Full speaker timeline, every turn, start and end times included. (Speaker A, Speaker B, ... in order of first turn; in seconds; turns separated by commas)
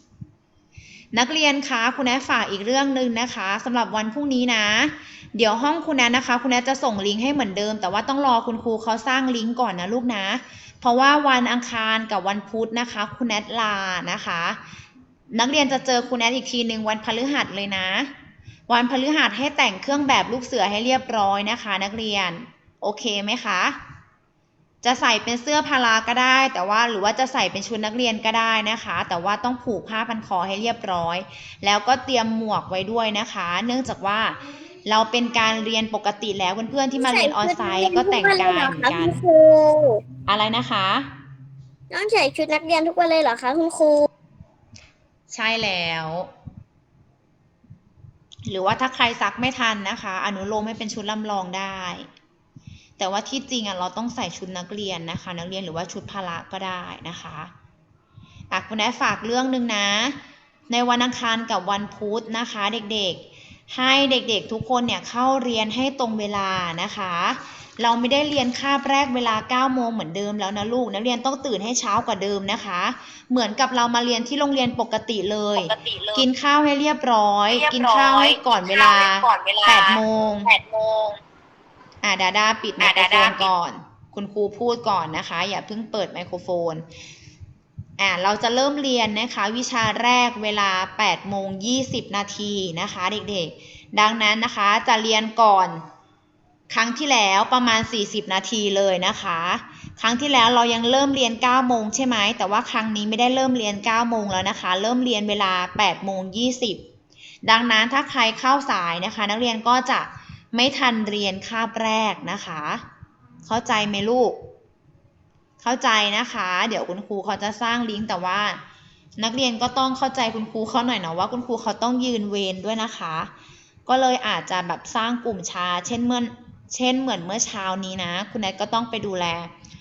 Speaker A: 1.1-14.6, Speaker A: 15.3-18.1, Speaker A: 18.7-23.8, Speaker A: 24.8-39.2, Speaker B: 37.0-40.0, Speaker A: 40.3-41.1, Speaker B: 41.9-44.1, Speaker A: 45.3-46.3, Speaker A: 48.5-52.1, Speaker A: 53.0-57.5, Speaker A: 58.5-60.2, Speaker A: 60.7-80.5, Speaker C: 75.6-76.2, Speaker C: 77.5-81.2, Speaker A: 82.0-86.8, Speaker C: 82.8-83.5, Speaker A: 88.0-95.8, Speaker A: 96.7-106.8, Speaker A: 107.4-112.8, Speaker A: 113.5-114.4, Speaker A: 115.6-118.6, Speaker A: 119.2-123.3, Speaker A: 123.9-129.5